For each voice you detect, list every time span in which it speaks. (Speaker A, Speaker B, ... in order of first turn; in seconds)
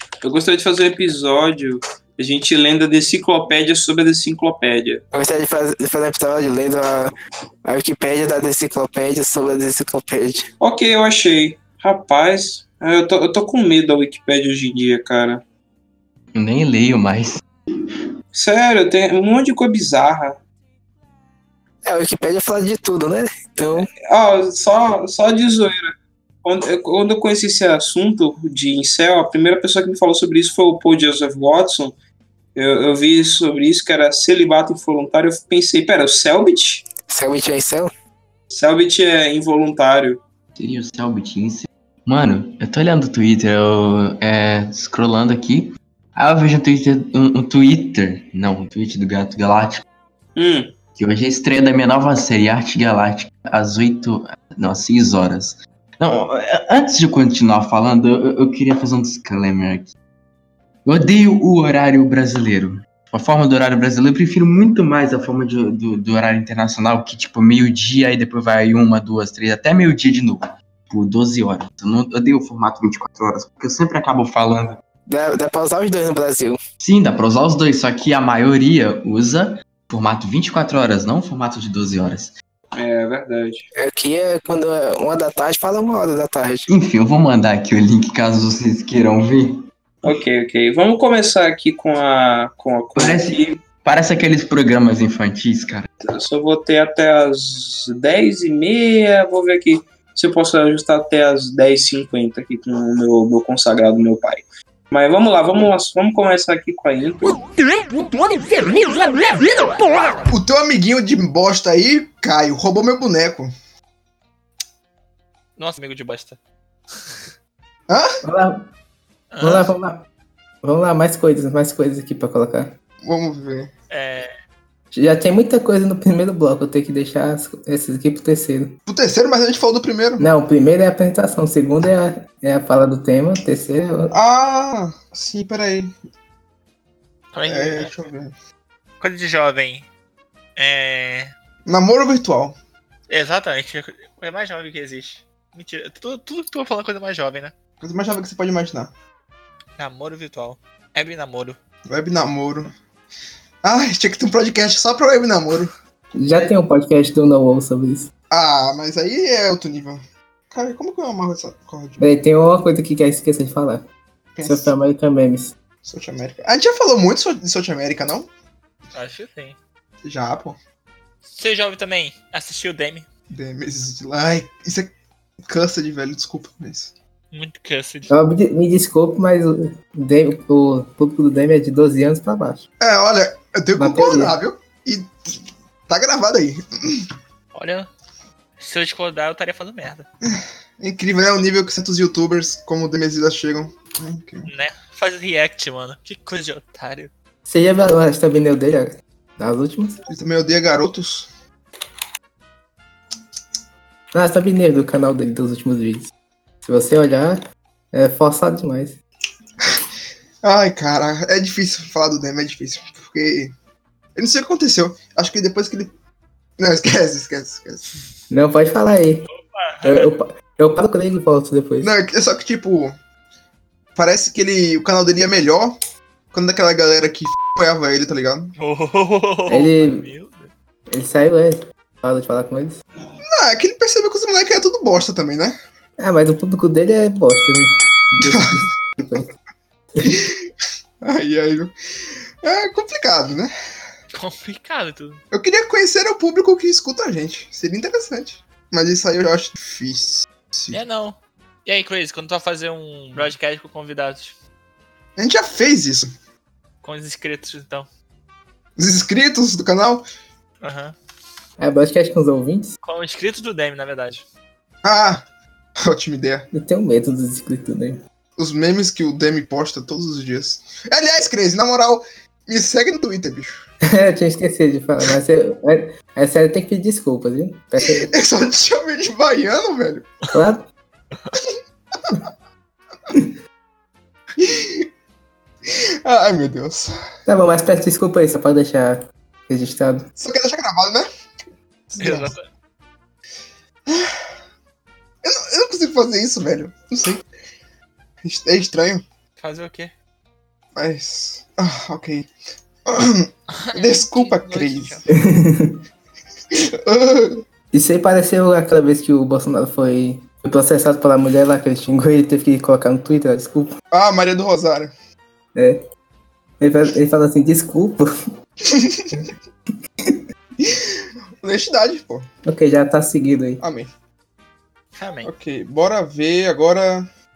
Speaker A: 0.2-5.0, 10.6-15.4, 18.3-20.4, 23.8-31.9, 32.5-36.9, 38.5-40.2, 50.4-50.7, 82.7-83.7, 90.0-93.5, 96.0-107.4
Speaker B: 5.5-6.8, 21.9-23.1, 118.2-118.7, 119.4-120.0, 120.6-122.7, 124.9-128.8, 130.2-134.1, 156.2-158.1, 162.0-163.8, 164.4-165.5, 178.1-182.6, 183.8-184.3, 197.5-200.0, 204.1-206.1, 206.6-207.4, 207.9-208.9, 218.3-219.3, 219.8-221.9, 229.5-230.1, 230.9-232.8, 236.0-239.3, 261.6-262.7, 266.5-268.0, 273.9-278.1, 280.3-280.6, 287.3-290.1, 305.1-305.8, 307.7-313.7, 315.6-315.8, 316.6-318.1, 322.4-323.6
Speaker C: 7.8-10.3, 37.2-37.6, 75.1-76.5, 83.8-86.6
Speaker D: 16.3-17.4, 40.6-49.8, 51.0-59.9, 60.9-74.8, 76.8-82.3, 86.7-89.6, 93.0-95.9
Speaker E: 110.3-113.5, 117.9-118.2, 123.0-123.7, 128.9-130.3, 134.1-135.9, 137.5-138.3, 141.7-142.6, 147.8-148.9, 151.9-152.7, 153.6-155.7, 158.3-162.1, 164.3-164.7, 165.8-168.3, 170.0-170.6, 173.3-174.9, 175.4-176.9, 182.8-185.4, 185.9-187.1, 190.2-194.5, 200.1-201.3, 210.4-213.5, 214.2-215.9, 216.6-217.9, 221.8-223.0, 224.0-225.8, 226.3-228.6, 233.2-235.6, 238.3-238.6, 240.0-240.5, 241.0-241.7, 242.4-243.5, 245.3-250.8, 255.2-256.1, 258.8-260.0, 264.8-265.2, 265.8-266.5, 268.4-273.6, 277.8-280.1, 284.4-284.9, 285.6-287.0, 290.2-291.1, 291.9-292.3, 293.9-294.2, 295.2-297.2, 298.2-299.0, 300.8-302.3, 302.9-305.1, 306.5-307.4, 313.9-314.9, 318.6-319.1, 320.6-322.3, 323.6-323.9, 325.2-327.1
Speaker F: 115.6-116.4, 119.3-119.7, 123.9-124.3, 137.3-137.9, 139.0-139.9, 140.6-141.3, 143.1-147.5, 149.8-151.6, 168.9-169.6, 171.3-173.1, 177.3-178.1, 187.5-187.9, 188.6-190.1, 194.5-197.1, 219.3-220.1, 228.6-230.5, 244.1-245.2, 250.7-254.4, 256.8-257.9, 260.6-260.9, 262.8-264.2, 292.0-292.4, 299.4-299.9, 303.5-305.1, 324.9-325.3